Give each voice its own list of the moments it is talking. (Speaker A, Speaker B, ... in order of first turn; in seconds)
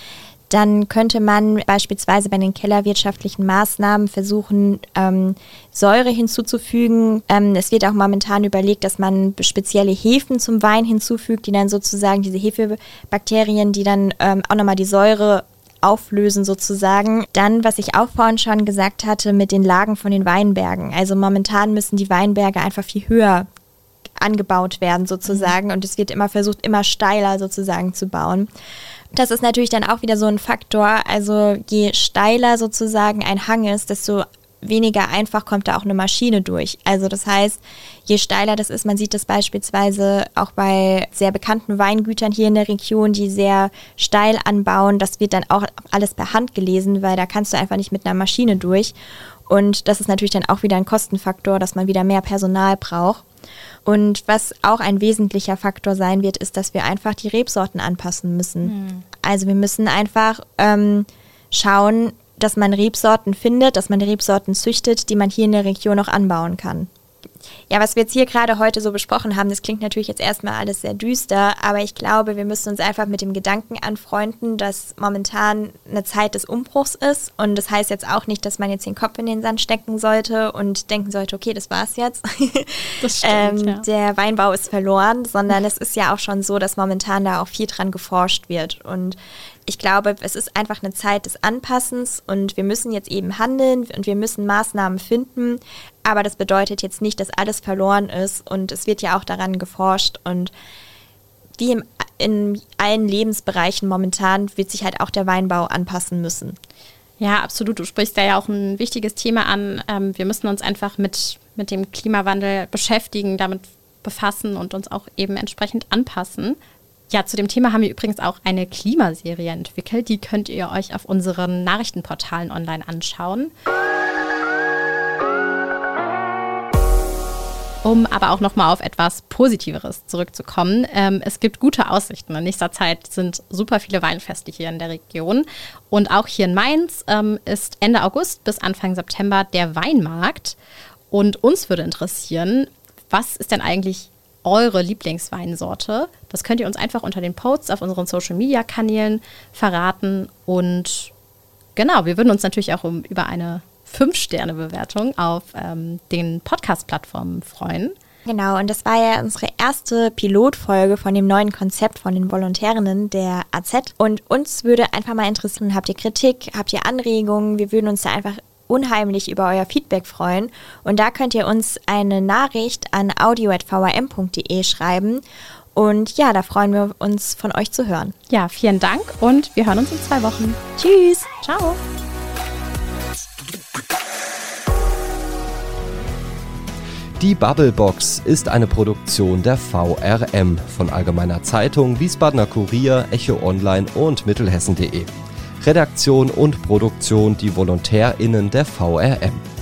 Speaker A: 0.5-23.5, 24.2-28.5, 29.1-49.0, 49.5-53.2, 53.9-66.9, 67.7-100.5, 101.6-106.6, 158.3-175.2, 175.8-178.1
Speaker B: 25.3-25.6, 58.6-59.0, 83.0-83.8, 107.2-116.6, 117.1-123.5, 127.8-140.6, 141.1-151.1, 151.8-157.9, 178.3-181.8
Speaker C: 187.2-195.1, 195.6-199.4